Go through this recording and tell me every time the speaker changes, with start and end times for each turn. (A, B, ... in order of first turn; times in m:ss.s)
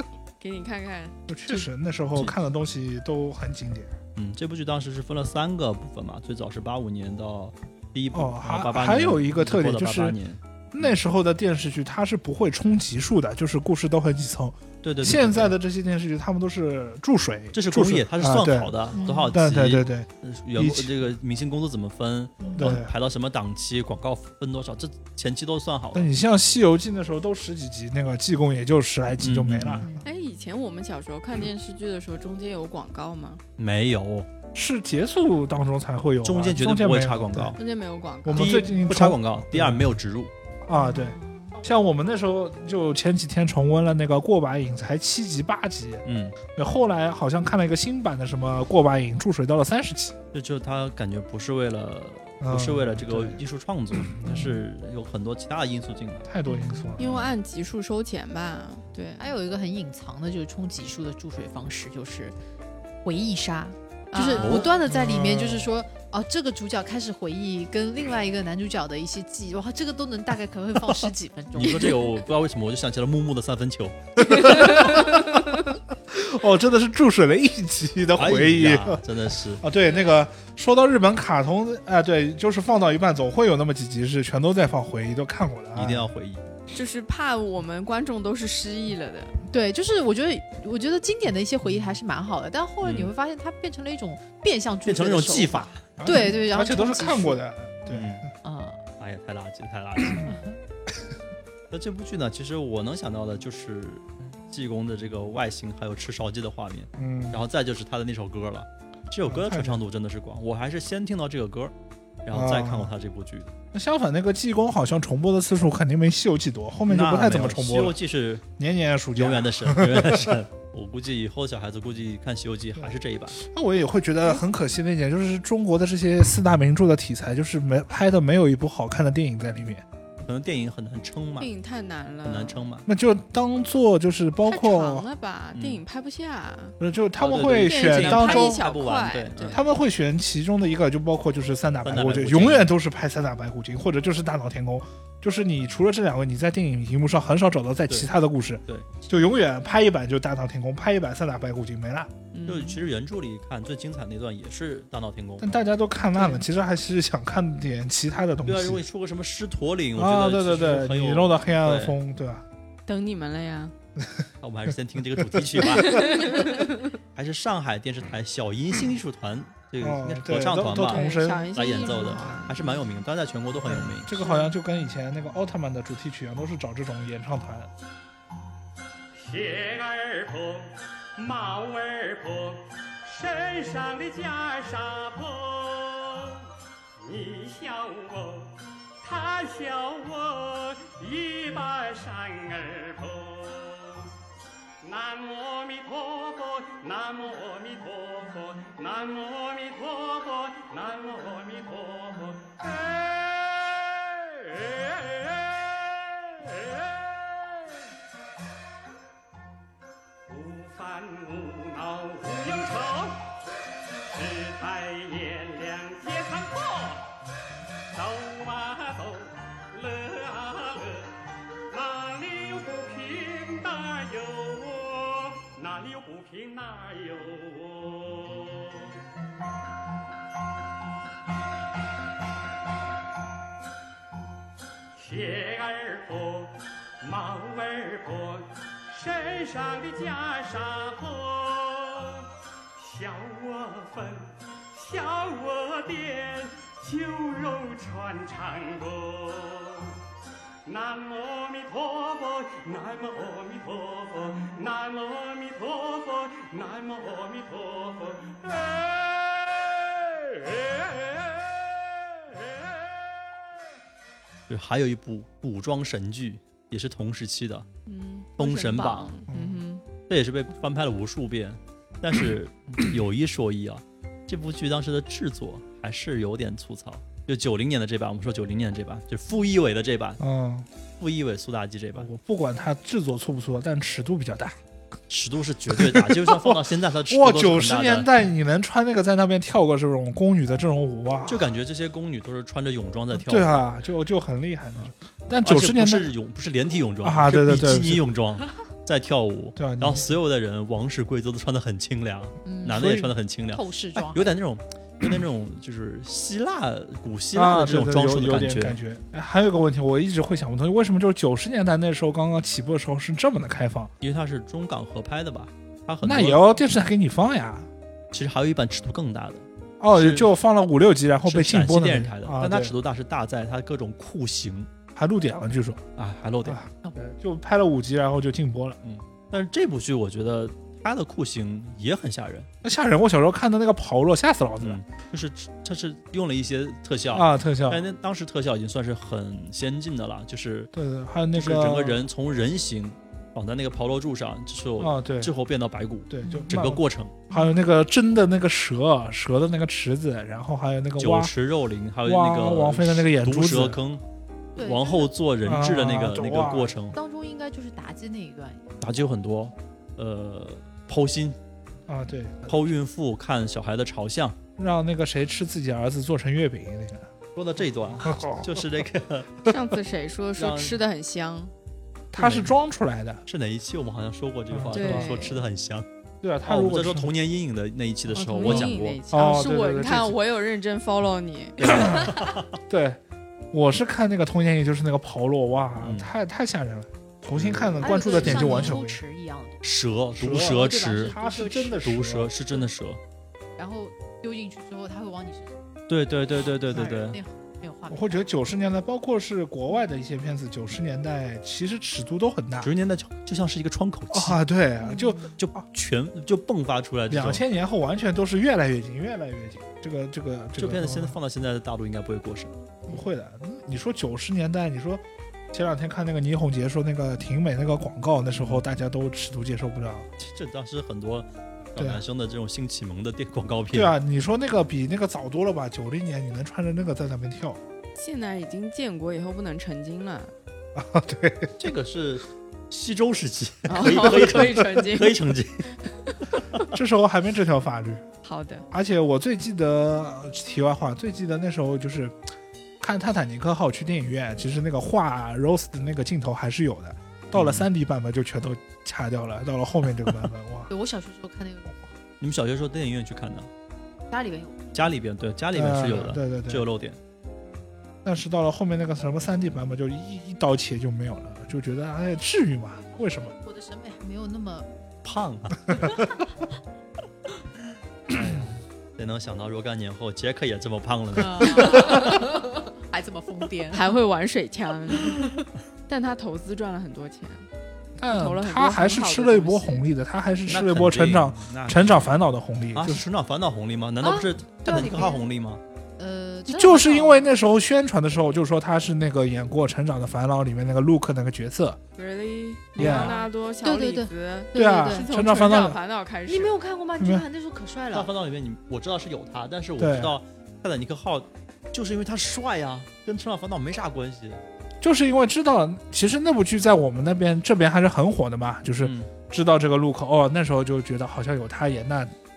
0:00.4-0:01.6 A
0:01.3-0:03.9 B
0:04.2-0:11.0 C
0:08.1-0:10.2 B
0:10.7-0:18.8 B
0:14.8-0:15.5 C
0:17.5-0:26.1 C
0:19.0-0:19.4 D
0:19.3-0:20.9 B
0:22.4-0:22.7 D
0:22.6-0:22.9 B
0:25.9-0:30.0 B
0:29.2-0:29.9 C
0:30.0-0:33.4 A
0:33.6-0:34.3 C
0:34.6-0:37.6 B
0:36.2-0:37.6 C
0:37.6-0:38.8 A
0:38.2-0:39.9 B
0:38.3-0:40.3 C
0:40.7-0:50.2 B
0:40.8-0:41.5 D
0:46.0-0:46.4 C
0:50.3-0:56.3 C
0:52.4-0:53.4 B
0:54.0-0:54.5 B
0:56.3-0:57.1 B
0:56.5-0:56.9 D
0:57.0-0:59.3 A
0:59.2-1:02.4 D
1:03.0-1:11.9 D
1:04.1-1:04.8 A
1:04.4-1:04.7 C
1:04.9-1:05.7 B
1:11.6-1:14.0 C
1:14.3-1:19.0 B
1:18.2-1:19.6 C
1:19.6-1:26.1 B
1:25.8-1:26.4 C
1:26.7-1:29.4 A
1:29.5-1:37.4 D
1:32.8-1:33.1 C
1:34.8-1:35.8 C
1:36.0-1:38.3 B
1:37.9-1:38.2 C
1:38.4-1:38.8 D
1:39.0-1:40.3 C
1:40.3-1:40.6 D
1:41.7-1:51.7 C
1:47.0-1:47.4 B
1:49.3-1:49.8 B
1:52.2-1:53.5 C
1:52.3-1:52.9 B
1:53.7-1:58.0 B
1:56.9-1:58.4 C
1:58.6-2:00.4 B
1:59.2-2:03.4 C
2:02.8-2:09.8 B
2:10.2-2:11.5 C
2:11.4-2:12.7 A
2:12.2-2:12.9 C
2:12.9-2:15.1 B
2:14.5-2:16.8 A
2:15.5-2:15.8 C
2:16.8-2:18.6 B
2:17.2-2:19.6 C
2:17.6-2:19.6 A
2:19.5-2:32.1 B
2:21.8-2:22.7 C
2:32.3-2:32.8 A
2:32.5-2:35.6 C
2:35.4-2:38.8 B
2:38.4-2:42.0 C
2:40.0-2:42.5 B
2:42.9-2:43.7 A
2:44.4-2:46.6 C
2:45.2-2:46.2 B
2:45.8-2:46.9 A
2:47.2-2:54.1 C
2:49.8-2:51.5 B
2:50.7-2:52.8 A
2:53.6-2:57.7 B
2:54.2-2:54.5 A
2:59.1-3:06.5 E
3:07.0-3:14.1 E
3:14.8-3:27.7 E
3:30.3-3:33.4 E
3:34.1-3:37.1 E
3:37.9-3:41.2 E
3:41.7-3:49.0 E
3:55.0-4:10.0 E
4:10.6-4:22.8 E
4:24.5-4:27.7 C
4:27.9-4:29.8 A
4:28.4-4:29.2 C
4:29.3-4:29.6 B
4:30.1-4:40.2 C
4:40.2-4:40.7 B
4:41.0-4:42.1 C
4:42.0-4:44.6 B
4:45.1-4:48.1 C
4:45.7-4:51.5 B
4:51.3-4:53.6 C
4:53.1-4:56.1 B
4:55.4-5:08.8 C
4:57.0-4:58.1 B
4:59.6-5:00.1 B
5:02.4-5:03.0 D
5:02.7-5:03.1 B
5:03.5-5:04.3 D
5:07.4-5:13.9 B
5:14.0-5:16.5 C
5:16.0-5:17.7 B
5:18.1-5:20.3 C
5:19.8-5:22.7 B
5:21.2-5:24.7 C
5:25.0-5:25.8 B
5:26.0-5:26.6 C
5:26.4-5:28.8 B
5:28.8-5:32.5 C
5:32.6-5:34.8 B
5:34.6-5:40.7 C
5:37.1-5:37.8 B
5:40.7-5:42.0 B
5:41.4-5:47.2 C
5:44.8-5:45.3 B
5:46.1-5:51.3 B
5:46.2-5:46.5 D
5:51.0-5:54.0 C
5:52.0-5:53.8 B
5:54.6-5:55.1 D
5:54.6-5:57.0 C
5:55.4-5:56.8 B
5:56.9-5:58.6 D
5:58.8-6:01.4 C
6:01.9-6:02.7 B
6:02.5-6:04.4 C
6:04.6-6:07.1 B
6:07.4-6:09.4 C
6:08.0-6:08.6 B
6:09.5-6:11.5 A
6:10.4-6:10.8 C
6:12.1-6:13.2 B
6:12.2-6:12.5 C
6:13.3-6:15.9 C
6:14.5-6:15.2 B
6:14.7-6:15.4 A
6:16.2-6:17.1 B
6:16.4-6:19.0 C
6:18.1-6:21.9 A
6:18.4-6:20.2 B
6:21.6-6:22.5 C
6:21.6-6:22.1 B
6:22.7-6:23.0 B
6:23.5-6:29.0 B
6:25.8-6:26.1 C
6:27.4-6:28.8 C
6:27.8-6:29.6 D
6:29.6-6:31.2 C
6:30.2-6:32.3 B
6:30.4-6:31.9 D
6:31.8-6:33.0 C
6:33.6-6:35.6 D
6:35.9-6:37.2 C
6:36.3-6:38.2 D
6:37.9-6:42.7 B
6:42.6-6:44.4 C
6:44.1-6:45.4 B
6:44.8-6:45.3 D
6:45.4-6:47.4 C
6:47.1-6:51.2 B
6:50.6-6:52.6 C
6:52.9-7:00.1 B
6:58.4-6:58.6 C
7:00.2-7:03.9 C
7:01.8-7:02.0 B
7:03.7-7:07.6 B
7:08.0-7:10.3 A
7:10.8-7:11.5 B
7:11.6-7:15.7 C
7:13.7-7:15.3 A
7:15.9-7:16.1 A
7:16.7-7:18.0 B
7:18.2-7:18.7 A
7:18.7-7:22.2 B
7:22.8-7:30.7 B
7:27.3-7:27.7 C
7:30.7-7:31.8 D
7:32.2-7:33.5 C
7:34.1-7:34.7 D
7:34.7-7:37.0 C
7:35.5-7:36.7 B
7:38.0-7:43.4 B
7:43.4-7:44.7 D
7:45.0-7:45.8 C
7:48.1-7:51.8 C
7:48.2-7:48.5 B
7:51.2-7:53.9 D
7:51.6-7:52.1 A
7:53.7-7:57.5 A
7:58.0-8:03.0 B
7:58.1-7:59.8 A
8:00.5-8:02.2 C
8:02.8-8:05.6 C
8:04.0-8:05.2 D
8:06.0-8:07.3 D
8:06.5-8:11.8 B
8:12.0-8:16.6 A
8:12.8-8:13.1 B
8:12.8-8:15.1 D
8:14.5-8:15.8 B
8:16.3-8:18.1 D
8:17.0-8:17.2 B
8:17.9-8:24.4 C
8:19.8-8:20.2 B
8:24.8-8:32.1 B
8:28.8-8:29.1 C